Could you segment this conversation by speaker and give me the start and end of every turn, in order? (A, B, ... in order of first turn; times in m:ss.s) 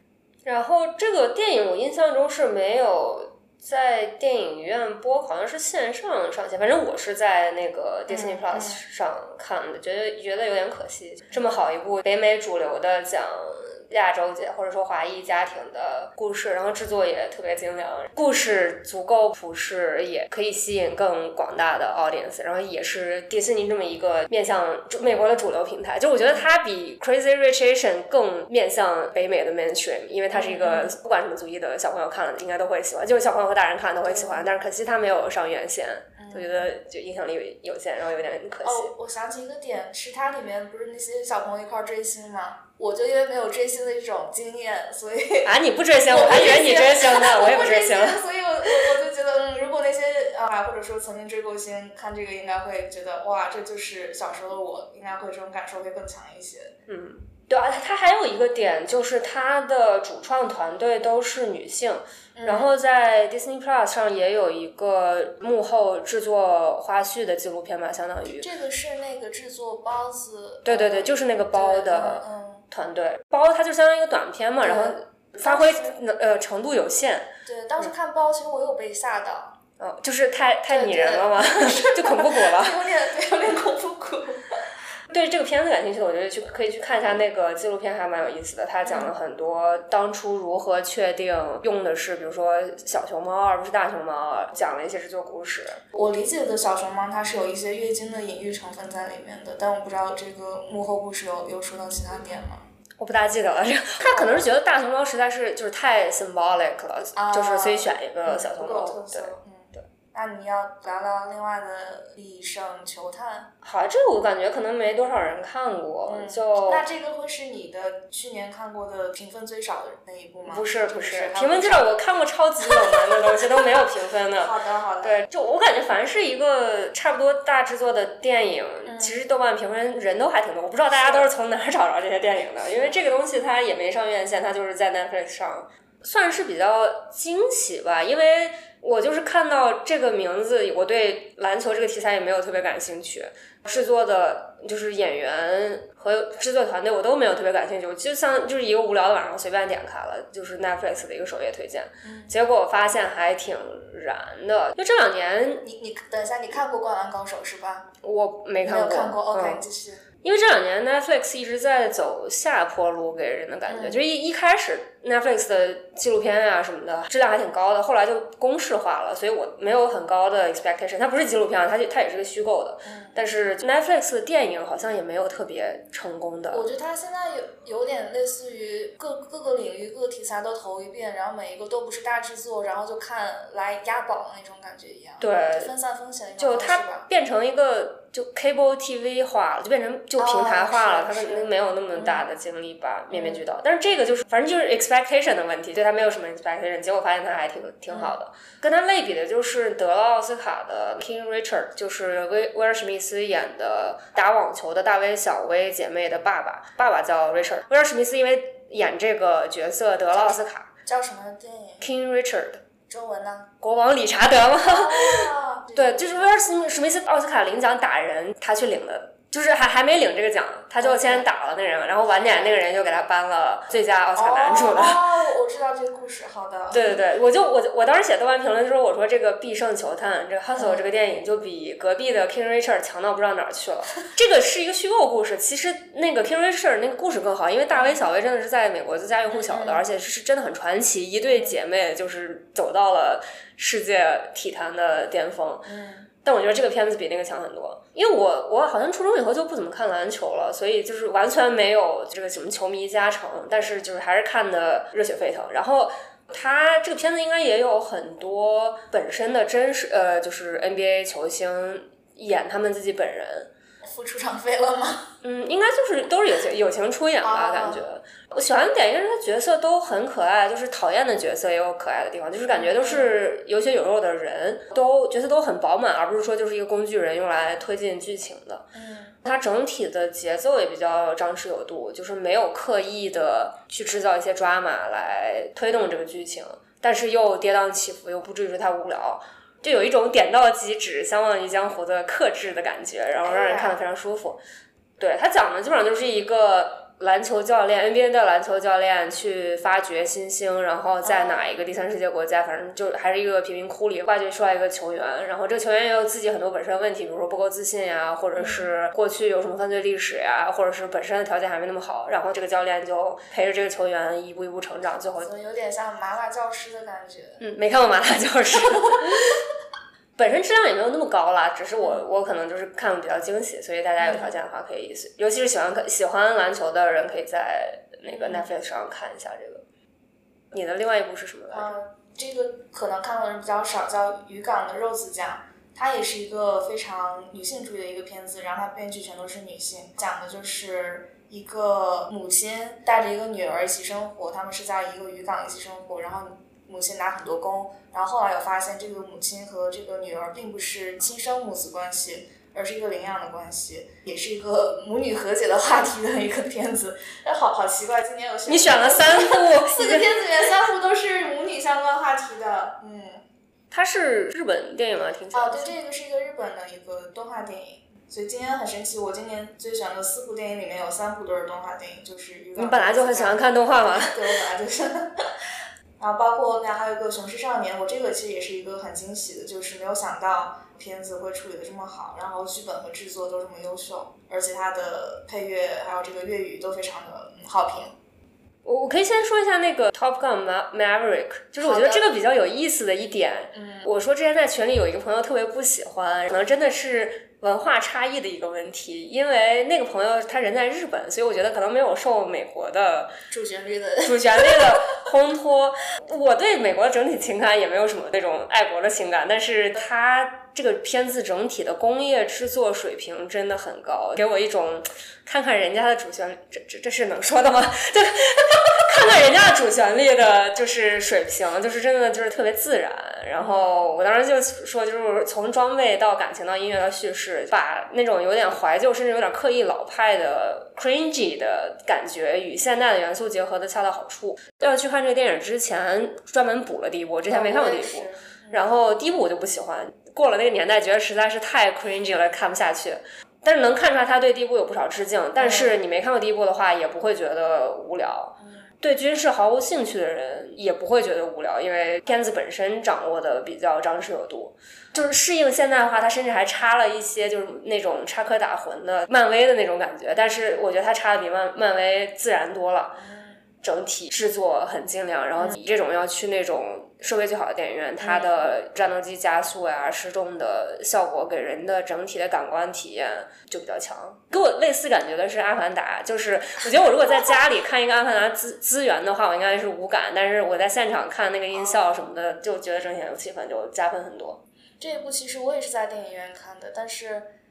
0:00.4-0:38.9 A
0:08.1-0:08.8 B
0:30.3-0:30.9 B
0:34.0-0:34.5 B
0:36.2-0:36.7 B
0:38.6-0:56.8 B
0:45.4-0:49.0 A
0:56.9-1:08.5 A
1:02.4-1:02.7 B
1:08.2-1:12.6 B
1:10.6-1:17.3 A
1:14.6-1:16.0 B
1:17.4-1:19.6 B
1:19.8-1:22.8 A
1:20.7-1:24.6 B
1:25.1-1:35.8 A
1:28.8-1:29.1 B
1:35.9-1:42.6 B
1:43.0-1:49.3 A
1:44.0-1:44.5 B
1:47.1-1:53.5 B
1:53.6-1:56.8 A
1:56.0-2:02.0 B
2:00.4-2:35.6 A
2:02.8-2:03.6 B
2:04.3-2:05.2 B
2:08.8-2:09.2 B
2:10.9-2:11.3 B
2:12.6-2:13.0 B
2:32.0-2:32.3 B
2:35.6-2:37.9 B
2:38.0-2:39.6 A
2:38.6-2:40.0 B
2:40.2-2:56.6 A
2:43.7-2:44.0 B
2:52.8-2:53.2 B
2:56.5-3:07.1 B
3:05.2-3:05.7 A
3:06.4-3:30.7 A
3:10.2-3:12.2 B
3:13.1-3:13.4 B
3:17.9-3:18.2 B
3:30.1-3:31.9 B
3:31.8-3:32.6 A
3:32.9-3:33.5 B
3:33.6-3:45.0 A
3:34.6-3:36.3 B
3:40.8-3:41.3 B
3:42.1-3:42.6 B
3:44.2-3:47.0 B
3:46.7-4:05.7 A
3:50.6-3:50.8 B
3:57.7-3:58.0 B
3:59.3-3:59.8 B
4:01.2-4:01.6 B
4:05.6-4:06.1 B
4:06.2-4:23.5 A
4:23.8-4:25.1 B
4:25.2-4:38.7 A
4:27.2-4:27.8 B
4:32.5-4:33.1 B
4:38.7-4:39.2 B
4:39.2-4:54.4 A
4:53.2-4:53.8 B
4:55.0-5:15.3 A
5:01.0-5:01.6 B
5:08.4-5:08.7 B
5:15.2-5:17.4 B
5:17.4-5:19.4 A
5:18.7-5:19.2 B
5:20.2-5:29.6 A
5:24.0-5:24.4 B
5:28.1-5:28.5 B
5:30.5-5:31.7 A
5:31.5-6:03.2 B
5:58.5-6:00.4 A
6:03.7-6:05.7 A
6:05.3-6:15.3 B
6:12.6-6:14.4 A
6:16.0-6:27.9 B
6:28.6-6:43.1 A
6:31.6-6:32.1 B
6:33.5-6:33.9 B
6:43.3-6:45.0 B
6:44.0-7:43.0 A
7:03.4-7:03.6 B
7:17.3-7:18.7 B
7:25.4-7:25.8 B
7:43.0-7:43.3 B
7:43.6-8:04.4 A
7:48.0-7:48.3 B
8:01.5-8:01.9 B
8:04.8-8:07.3 B